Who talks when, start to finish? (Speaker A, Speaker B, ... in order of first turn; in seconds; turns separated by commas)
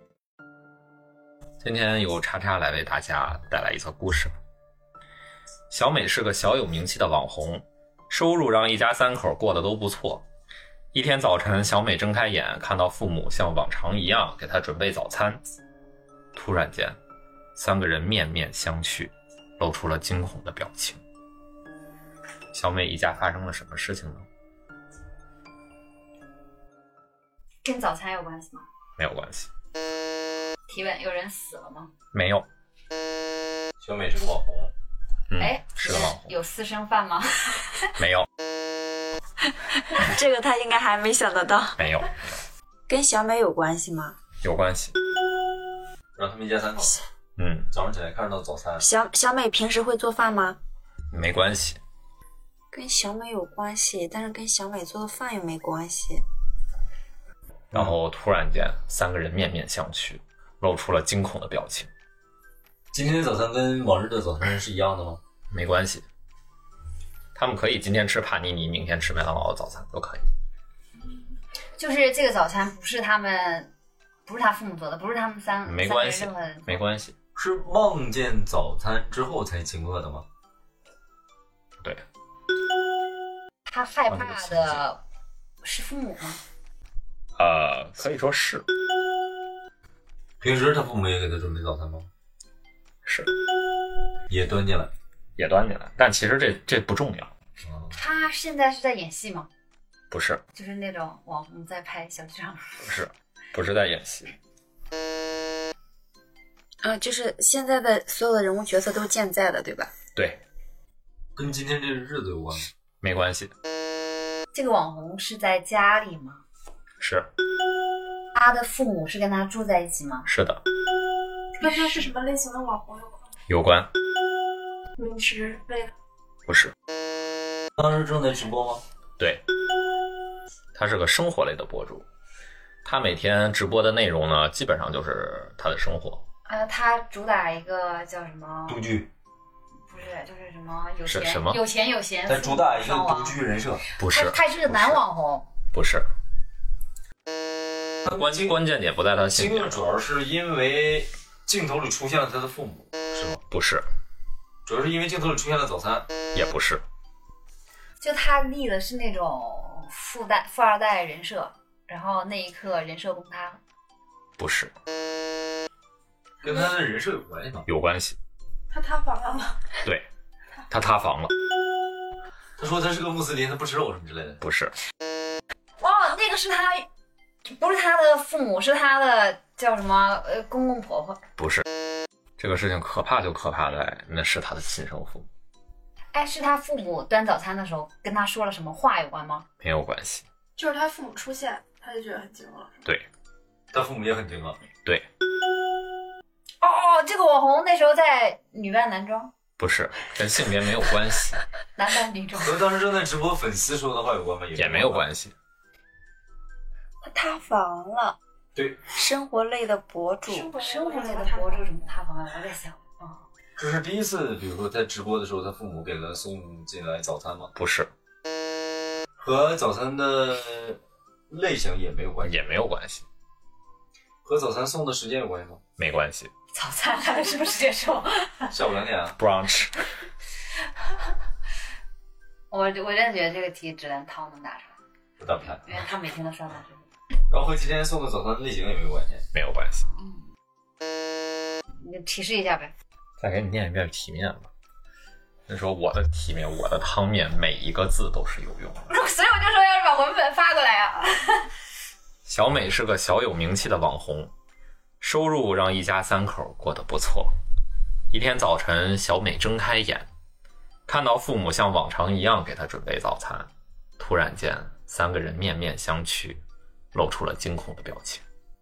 Speaker A: 1.6-4.3, Speaker A: 5.7-10.2, Speaker A: 10.9-15.4, Speaker A: 16.3-17.0, Speaker A: 17.6-21.0, Speaker A: 22.5-24.2, Speaker B: 27.6-28.6, Speaker A: 29.0-29.5, Speaker B: 30.7-31.9, Speaker A: 32.1-32.4, Speaker C: 33.8-34.7, Speaker A: 35.3-36.3, Speaker B: 35.4-37.8, Speaker A: 38.0-38.2, Speaker D: 39.9-41.8, Speaker A: 41.8-42.3, Speaker D: 42.9-44.2, Speaker A: 44.4-44.9, Speaker C: 46.1-47.0, Speaker A: 47.4-47.7, Speaker C: 47.7-48.9, Speaker D: 48.8-50.6, Speaker A: 51.1-51.8, Speaker D: 52.7-56.2, Speaker A: 57.7-61.9, Speaker C: 62.9-65.2, Speaker A: 65.5-66.0, Speaker A: 67.3-70.3, Speaker B: 71.8-73.7, Speaker B: 74.2-76.7, Speaker A: 75.6-77.1, Speaker C: 77.3-80.2, Speaker B: 83.7-85.0, Speaker A: 84.1-84.8, Speaker B: 85.6-86.4, Speaker A: 87.4-88.6, Speaker C: 90.4-92.1, Speaker A: 93.0-93.3, Speaker C: 94.3-94.9, Speaker A: 95.4-97.3, Speaker B: 97.9-99.5, Speaker A: 100.1-100.4, Speaker B: 100.5-102.8, Speaker A: 102.8-104.3, Speaker D: 106.8-109.9, Speaker A: 110.2-110.4, Speaker C: 111.3-112.7, Speaker A: 113.0-113.5, Speaker B: 114.5-116.4, Speaker A: 117.0-117.3, Speaker B: 118.3-120.3, Speaker A: 120.2-120.6, Speaker E: 121.5-123.2, Speaker A: 123.5-123.9, Speaker E: 125.0-125.9, Speaker A: 126.5-126.7, Speaker C: 127.8-128.8, Speaker A: 130.7-132.0, Speaker A: 132.8-136.2, Speaker B: 136.4-138.8, Speaker C: 138.7-139.1, Speaker B: 139.9-143.4, Speaker A: 141.1-141.6, Speaker C: 142.3-143.9, Speaker A: 144.0-145.0, Speaker B: 144.1-145.5, Speaker A: 145.7-146.1, Speaker A: 148.1-149.9, Speaker C: 149.3-153.3, Speaker A: 153.3-153.8, Speaker C: 154.7-156.1, Speaker A: 156.3-156.8, Speaker B: 158.0-163.6, Speaker A: 164.4-164.7, Speaker C: 166.4-167.7, Speaker A: 167.7-168.2, Speaker E: 168.7-169.6, Speaker A: 170.7-171.3, Speaker C: 172.6-174.4, Speaker A: 174.4-174.8, Speaker B: 175.8-176.9, Speaker B: 177.4-181.2, Speaker A: 181.4-181.6, Speaker A: 182.4-185.3, Speaker B: 186.1-189.4, Speaker A: 189.6-190.2, Speaker E: 190.6-192.8, Speaker C: 193.7-194.6, Speaker B: 196.6-199.3, Speaker A: 199.6-201.4, Speaker B: 201.8-202.6, Speaker C: 202.4-205.1, Speaker A: 204.5-205.3, Speaker D: 207.0-208.2, Speaker C: 208.6-208.8, Speaker D: 208.9-210.6, Speaker B: 210.4-213.2, Speaker E: 210.9-211.6, Speaker C: 213.6-217.5, Speaker A: 217.5-217.9, Speaker C: 219.2-222.3, Speaker A: 222.2-223.1, Speaker C: 224.2-225.6, Speaker A: 225.8-226.3, Speaker B: 226.5-228.5, Speaker C: 228.5-229.2, Speaker A: 229.2-229.8, Speaker B: 232.5-234.8, Speaker C: 235.2-235.6, Speaker B: 235.6-236.8, Speaker C: 237.3-239.2, Speaker A: 239.3-239.8, Speaker B: 239.9-240.2, Speaker B: 241.8-242.7, Speaker A: 243.2-244.5, Speaker A: 245.5-248.9, Speaker B: 248.9-251.5, Speaker A: 252.2-254.3, Speaker A: 255.0-257.3, Speaker A: 258.1-260.1, Speaker A: 260.9-266.4, Speaker A: 266.9-268.2